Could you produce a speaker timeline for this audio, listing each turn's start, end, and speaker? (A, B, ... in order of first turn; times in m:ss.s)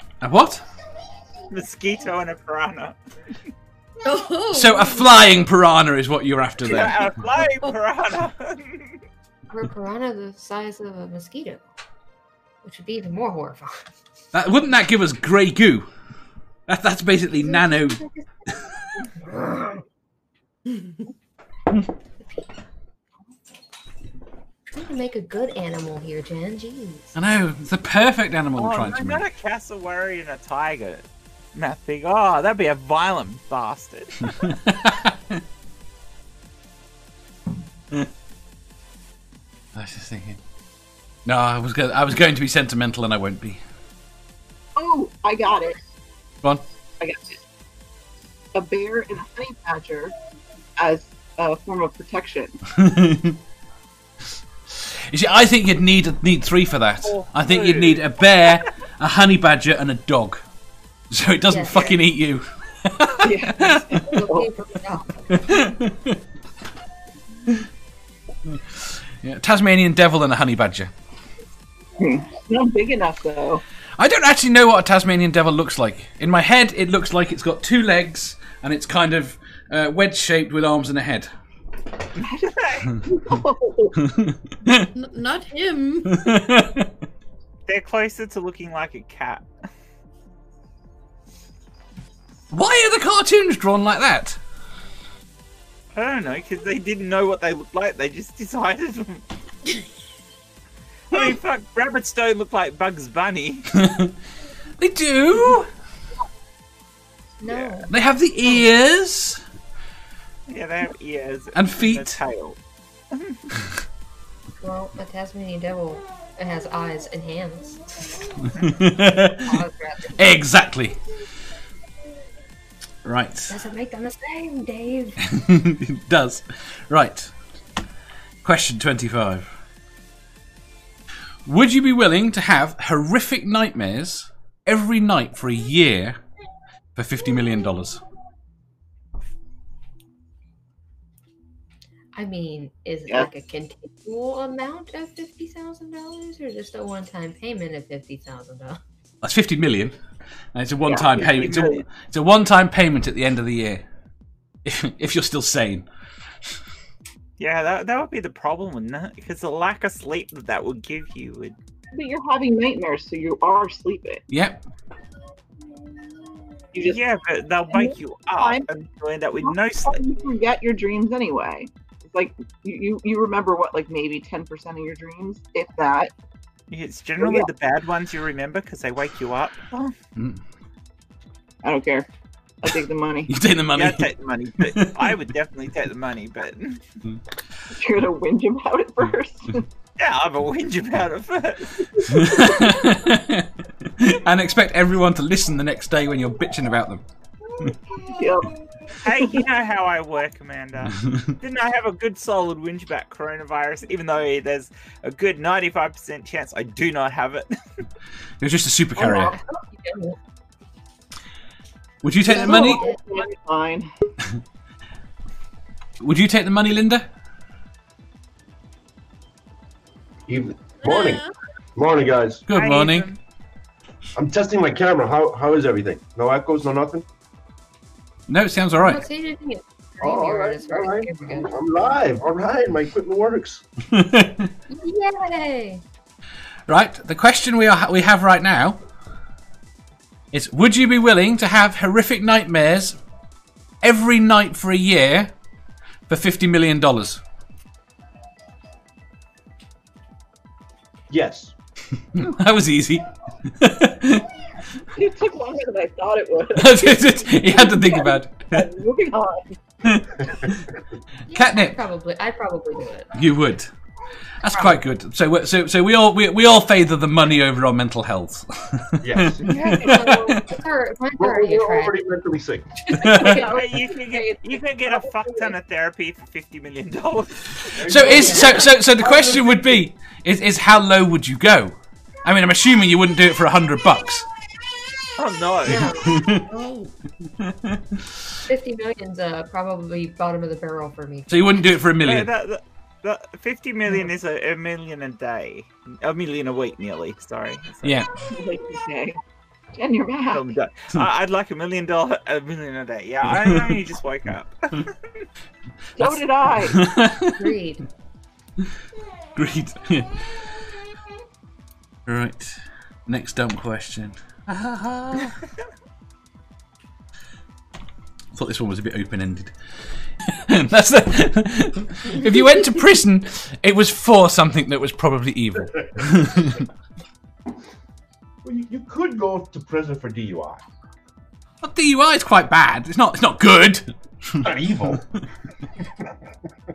0:00.2-0:00.6 A
0:01.5-0:03.0 B
0:04.0-0:05.3 C
0:04.5-0:07.1 A
0:06.6-0:09.0 B
0:09.5-0:11.6 D
0:12.6-0:13.9 D
0:14.3-0:15.9 A
0:16.7-0:18.0 A
0:17.4-0:18.5 D
0:19.2-0:19.8 D
0:24.7-0:27.2 D
0:27.1-0:29.2 A
0:28.6-0:34.5 B
0:34.2-0:35.4 A
0:39.7-0:40.4 A
0:41.2-0:43.6 A
0:44.8-0:45.8 E
0:47.0-0:47.4 E
0:48.5-0:50.1 E
0:50.8-0:52.6 E
0:52.7-0:53.4 A
0:54.7-1:00.4 A
0:57.0-0:58.0 B
1:01.1-1:03.9 A
1:01.5-1:02.0 D
1:03.2-1:04.5 E
1:04.0-1:05.6 D
1:05.3-1:06.2 A
1:08.5-1:10.9 A
1:12.0-1:13.6 E
1:14.0-1:21.3 A
1:22.2-1:24.0 E
1:22.6-1:22.9 B
1:24.0-1:24.9 A
1:24.9-1:26.3 C
1:26.0-1:26.9 A
1:27.7-1:29.5 B
1:32.5-1:34.4 A
1:35.9-1:39.2 B
1:41.1-1:43.7 B
1:43.7-1:44.1 A
1:44.8-1:45.7 A
1:47.4-1:47.9 D
1:47.5-1:47.8 B
1:47.9-1:49.4 A
1:50.5-1:52.6 B
1:51.5-1:52.2 A
1:53.1-1:53.4 B
1:54.6-1:57.8 D
1:58.6-1:59.6 A
1:59.4-2:00.2 D
2:00.2-2:01.0 A
2:03.0-2:03.6 A
2:03.5-2:05.2 D
2:05.2-2:07.3 A
2:08.4-2:09.5 A
2:11.4-2:16.2 A
2:17.0-2:18.0 A
2:22.1-2:28.8 D
2:29.2-2:29.9 A
2:30.5-2:33.8 A
2:30.8-2:31.8 E
2:34.6-2:35.8 A
2:37.4-2:41.5 B
2:41.9-2:44.2 E
2:44.3-2:44.6 A
2:46.7-2:47.0 E
2:46.8-2:50.0 B
2:47.7-2:48.7 E
2:49.4-2:56.1 E
2:56.7-2:59.9 B
2:57.2-2:57.5 E
3:00.2-3:00.4 A
3:01.6-3:02.1 E
3:02.6-3:03.3 E
3:03.3-3:05.1 A
3:03.7-3:06.8 B
3:07.7-3:09.7 E
3:10.0-3:12.0 B
3:12.0-3:17.0 A
3:18.1-3:18.5 E
3:19.0-3:27.5 B
3:19.0-3:19.4 E
3:21.0-3:21.3 A
3:28.4-3:29.3 A
3:29.0-3:29.4 E
3:29.5-3:30.2 D
3:32.0-3:32.8 A
3:32.2-3:33.9 E
3:32.3-3:33.0 D
3:36.0-3:37.0 A
3:40.3-3:41.2 F
3:40.8-3:41.3 C
3:41.8-3:42.4 F
3:42.5-3:43.1 A
3:42.5-3:43.2 B
3:44.2-3:47.0 F
3:48.3-3:49.0 A
3:48.8-3:51.6 D
3:50.0-3:53.6 F
3:53.9-3:54.5 A
3:54.7-3:55.8 D
3:56.7-3:58.8 A
4:00.3-4:03.0 A
4:03.8-4:05.3 A
4:06.1-4:07.2 A
4:11.1-4:11.5 F
4:12.1-4:14.3 A
4:14.9-4:19.6 E
4:16.5-4:18.6 A
4:19.8-4:20.6 A
4:21.3-4:23.1 D
4:21.3-4:21.8 A
4:23.1-4:23.7 A
4:24.4-4:30.4 A
4:24.4-4:24.8 D
4:29.0-4:29.7 F
4:29.6-4:30.3 E
4:29.6-4:32.0 D
4:31.2-4:32.8 F
4:32.9-4:33.5 A
4:33.0-4:35.5 E
4:33.4-4:38.1 B
4:37.8-4:44.2 A
4:37.8-4:38.5 F
4:38.1-4:39.4 D
4:45.2-4:45.9 B
4:45.6-4:46.2 D
4:45.7-4:46.5 A
4:46.4-4:46.9 C
4:47.4-4:48.0 A
4:48.5-4:51.4 D
4:51.3-4:52.3 A
4:52.0-4:58.0 B
4:57.8-4:58.1 A
4:58.3-4:59.2 E
4:59.7-5:00.5 E
5:00.3-5:05.2 B
5:03.4-5:03.7 A
5:06.0-5:06.8 E
5:06.0-5:07.5 A
5:07.3-5:07.8 D
5:09.3-5:10.5 A
5:12.0-5:15.4 A
5:18.3-5:19.5 A
5:20.2-5:26.6 A
5:28.4-5:30.6 F
5:31.6-5:34.5 A
5:34.4-5:35.0 F